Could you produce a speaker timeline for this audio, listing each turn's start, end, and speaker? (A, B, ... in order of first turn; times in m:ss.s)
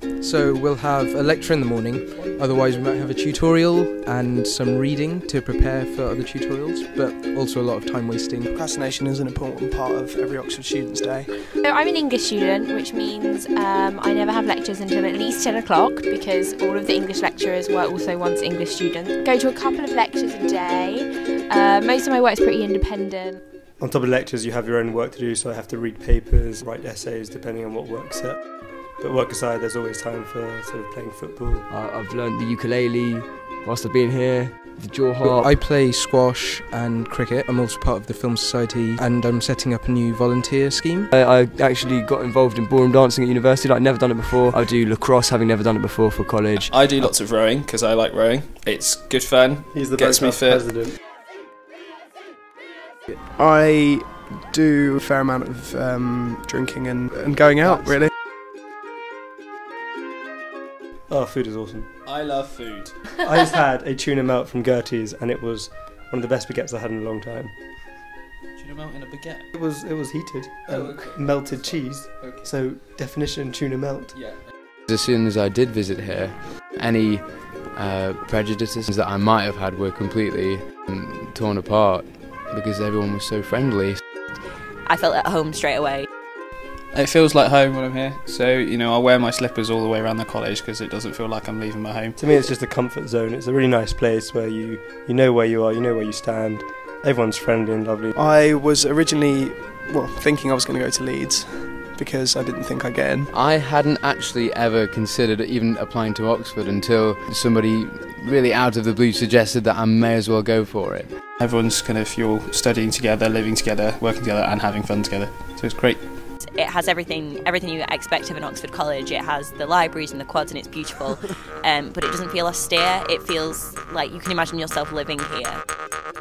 0:00.2-0:08.5 A
0:08.5-0:11.5 B
0:11.6-0:23.4 C
0:23.8-0:31.7 D
0:31.7-0:35.6 E
0:35.2-0:41.1 A
0:41.1-0:47.1 E
0:46.6-0:50.9 F
0:49.7-0:51.0 D
0:53.1-0:58.1 B
1:01.1-1:01.9 D
1:02.0-1:03.1 F
1:03.2-1:07.5 D
1:08.6-1:09.5 F
1:09.5-1:14.2 D
1:10.6-1:12.5 F
1:14.1-1:14.4 F
1:14.9-1:24.0 G
1:24.8-1:26.1 H
1:26.9-1:32.2 F
1:32.2-1:38.1 D
1:38.1-1:43.3 B
1:43.3-1:51.1 G
1:51.4-1:56.1 F
1:56.4-2:05.6 H